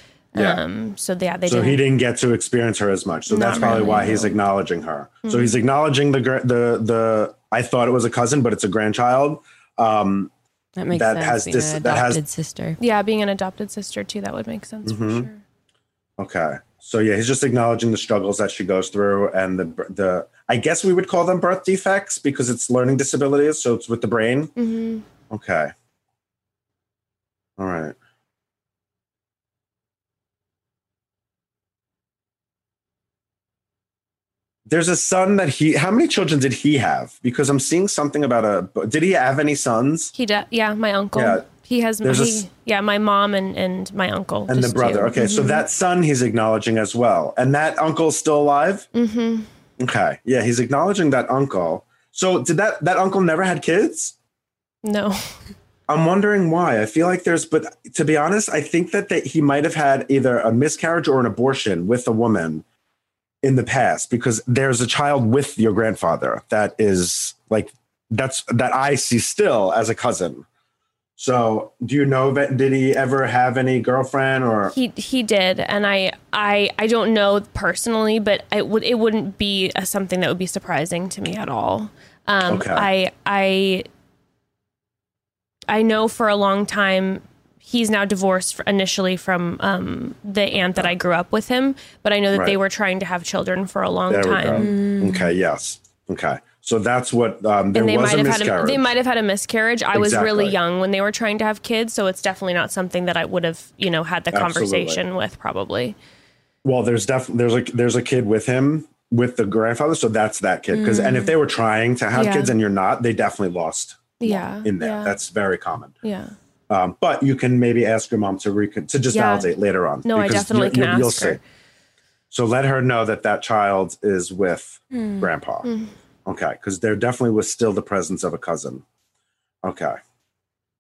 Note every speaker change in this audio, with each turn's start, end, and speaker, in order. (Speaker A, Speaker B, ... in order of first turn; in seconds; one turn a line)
Speaker A: 0.3-1.8
Speaker B: 0.3-0.6
Speaker B: 1.5-10.3
Speaker A: 3.3-4.3
Speaker C: 3.6-4.0
Speaker A: 5.2-5.6
Speaker C: 10.8-12.8
Speaker B: 10.9-12.2
Speaker A: 12.8-15.4
Speaker B: 14.8-15.3
Speaker B: 16.2-24.5
Speaker A: 24.6-25.1
Speaker B: 25.3-25.7
Speaker B: 27.6-28.0
Speaker B: 34.7-40.1
Speaker A: 40.1-45.6
Speaker B: 41.1-41.5
Speaker B: 42.0-42.5
Speaker B: 44.5-48.9
Speaker A: 49.0-49.5
Speaker B: 49.8-54.1
Speaker A: 54.8-55.2
Speaker B: 55.9-62.6
Speaker B: 63.4-70.5
Speaker B: 71.2-74.7
Speaker A: 74.7-83.9
Speaker B: 82.5-82.9
Speaker A: 85.7-94.7
Speaker B: 94.1-98.9
Speaker C: 94.5-95.3
Speaker A: 97.7-106.0
Speaker B: 99.9-100.6
Speaker B: 104.3-105.0
Speaker B: 106.6-115.9
Speaker C: 110.7-111.3
Speaker A: 112.1-112.5
Speaker A: 114.2-115.2
Speaker A: 116.0-116.3
Speaker B: 116.7-121.4
Speaker A: 119.1-119.5
Speaker A: 120.0-121.4
Speaker B: 122.3-125.7
Speaker C: 124.9-125.3
Speaker A: 125.7-125.9
Speaker B: 126.3-128.8
Speaker B: 129.6-130.0